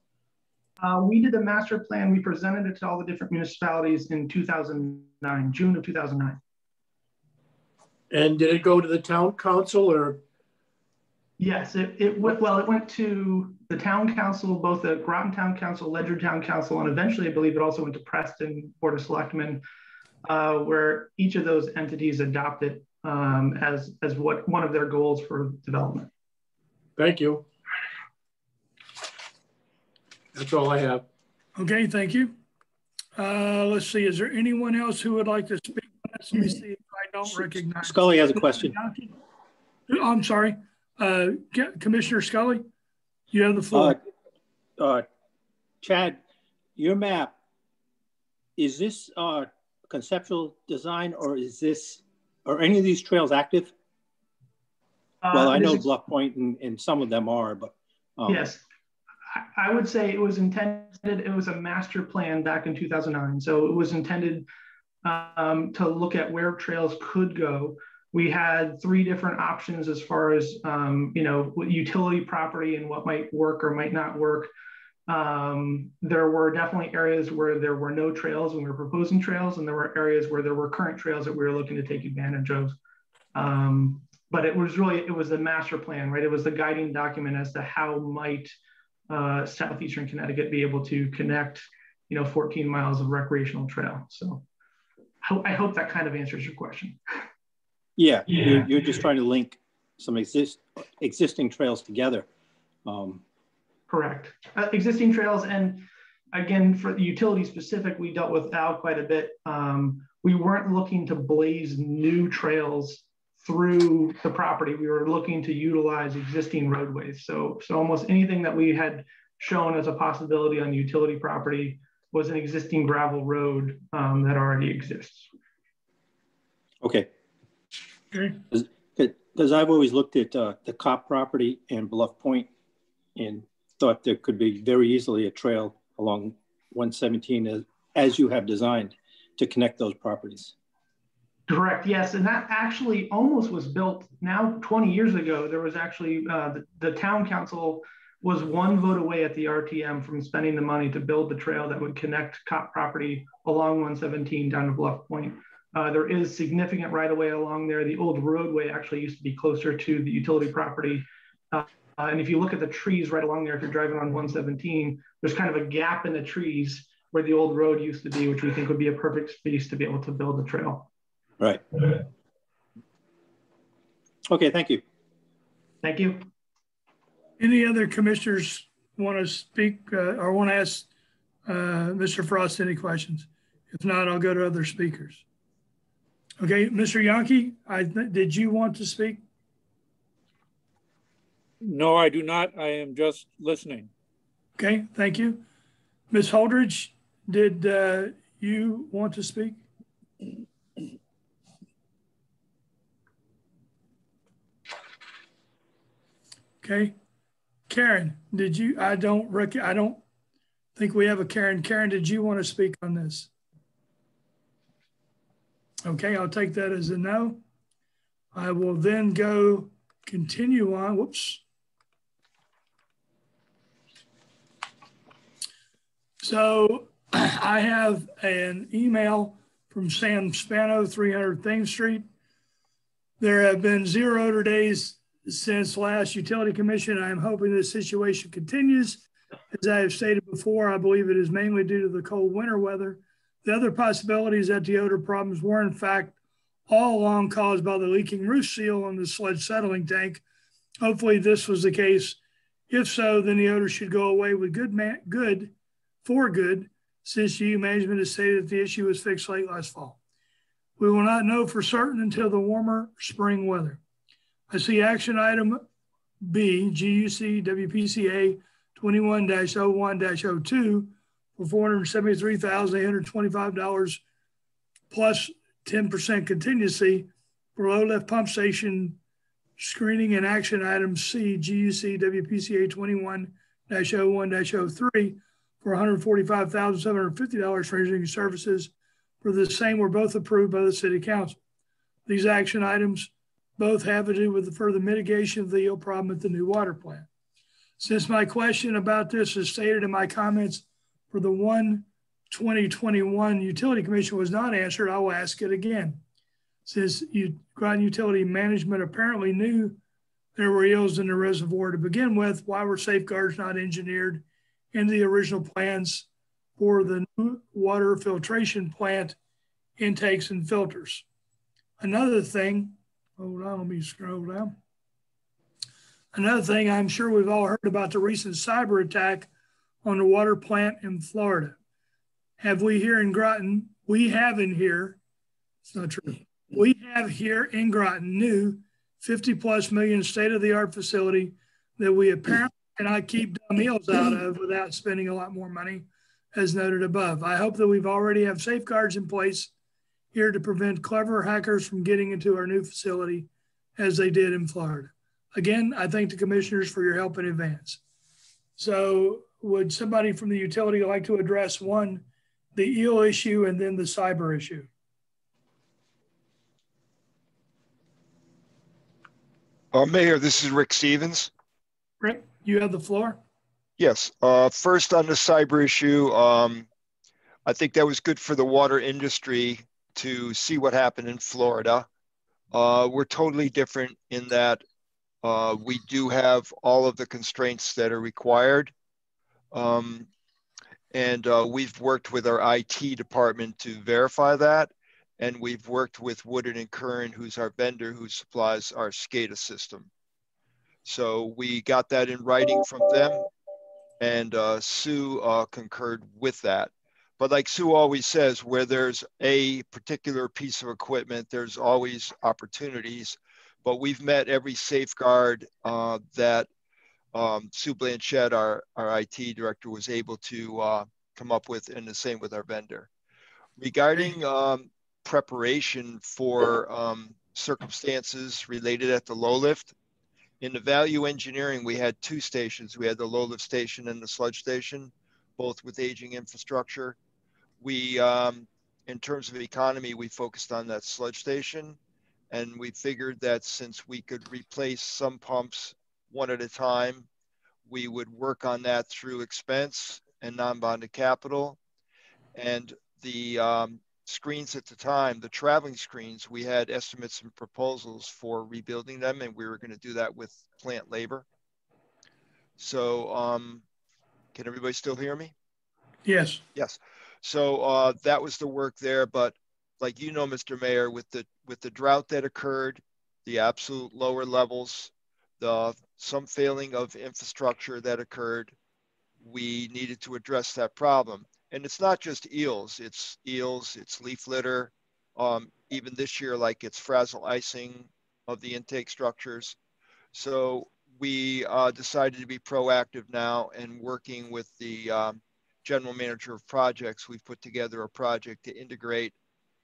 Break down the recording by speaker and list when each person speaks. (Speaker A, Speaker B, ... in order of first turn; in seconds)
Speaker A: 0.8-6.4, 11.4-19.6, 20.2-26.1, 55.2-55.8, 58.3-58.6, 59.3-64.5, 65.0-74.5, 75.1-82.8, 83.3-88.5, 89.1-94.4, 95.2-97.0, 103.9-125.3, 141.5-170.9, 175.8-176.3
Speaker B: 8.1-10.2, 27.0-27.4, 30.3-31.0
Speaker C: 31.6-32.3, 33.1-39.1, 39.9-42.6, 43.3-44.0, 128.1-128.4, 177.4-180.9, 181.4-185.2, 186.4-189.2, 194.6-195.4, 196.1-199.6, 206.6-206.9, 207.7-210.0, 210.8-213.3, 215.8-217.4, 218.3-221.4, 226.2-232.0, 233.2-246.2, 246.7-250.2, 250.8-252.2, 252.7-255.5, 256.0-260.0, 260.8-263.8, 264.5-265.6, 266.2-274.0, 274.9-279.0, 279.6-291.4, 292.1-297.1, 297.8-306.0, 306.6-309.8, 310.4-319.2, 319.8-321.0, 321.8-324.6, 326.1-329.3, 329.8-331.6, 332.4-335.0, 335.7-349.5, 350.1-357.8, 358.6-364.7, 372.0-373.2, 466.0-466.4
Speaker D: 37.3-38.8, 43.7-44.0, 44.8-45.0, 45.8-46.2, 46.8-47.3, 48.6-53.7, 55.3-58.5, 98.0-102.3, 102.8-103.2, 126.8-127.1, 128.5-132.5, 133.2-140.5, 171.4-172.0, 174.3-174.8
Speaker E: 191.6-193.9
Speaker F: 369.7-371.3, 373.8-376.7, 377.4-381.9, 382.5-384.6, 385.2-388.7, 389.5-390.1, 390.9-399.9, 400.8-403.3, 404.0-416.5, 417.1-422.9, 423.6-429.7, 430.4-436.9, 437.6-441.8, 442.3-447.1, 447.6-451.6, 452.3-461.2, 462.6-463.6, 464.3-465.3, 466.6-478.5, 479.2-489.6, 490.1-499.1